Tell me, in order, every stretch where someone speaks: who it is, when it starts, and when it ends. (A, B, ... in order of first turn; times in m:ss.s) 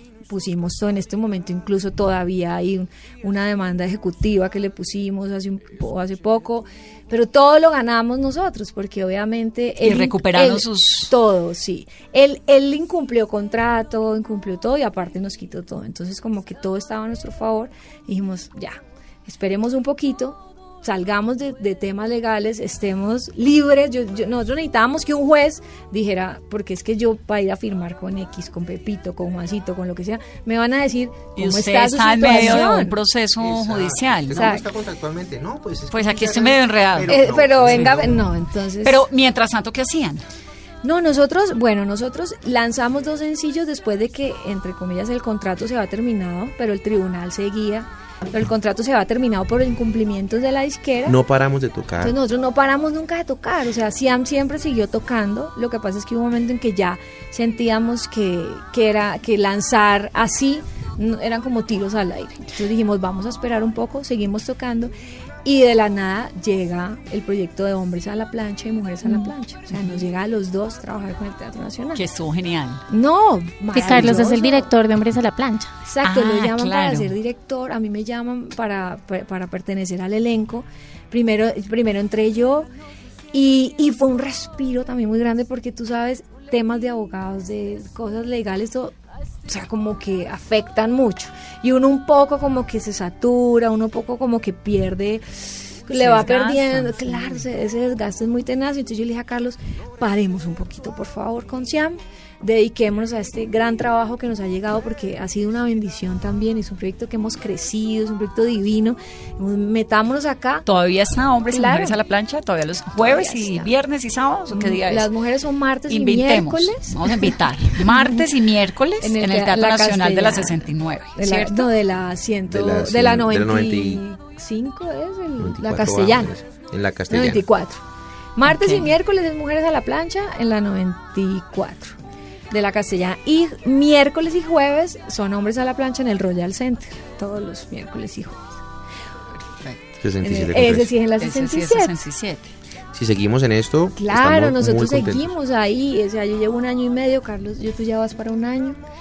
0:00.3-0:33.0 A
0:09.8-0:11.1 B
0:31.4-0:34.5 B
0:33.4-0:38.2 C
0:34.3-0:34.7 A
0:35.9-0:38.0 B
0:37.1-0:39.0 A
0:38.8-0:40.2 B
0:40.8-0:51.2 A
0:51.0-0:52.2 C
0:52.0-1:04.9 A
1:05.4-1:12.0 A
1:09.1-1:09.9 B
1:12.0-1:12.8 B
1:12.9-1:14.7 A
1:13.7-1:15.7 D
1:15.9-1:22.7 A
1:16.0-1:17.1 B
1:23.3-1:29.0 A
1:29.5-1:50.7 A
1:35.9-1:37.4 B
1:50.7-1:55.1 B
1:51.5-1:52.0 A
1:53.0-1:53.7 A
1:54.5-1:58.3 A
1:55.9-2:01.7 B
1:59.0-2:06.4 A
2:02.5-2:04.0 C
2:05.4-2:07.4 C
2:07.1-2:07.8 A
2:08.4-2:12.0 A
2:08.5-2:08.9 B
2:12.5-2:18.6 A
2:19.4-2:20.0 B
2:20.0-2:20.9 C
2:20.2-2:22.0 A
2:21.2-2:22.5 B
2:22.9-2:25.3 C
2:24.0-2:28.8 A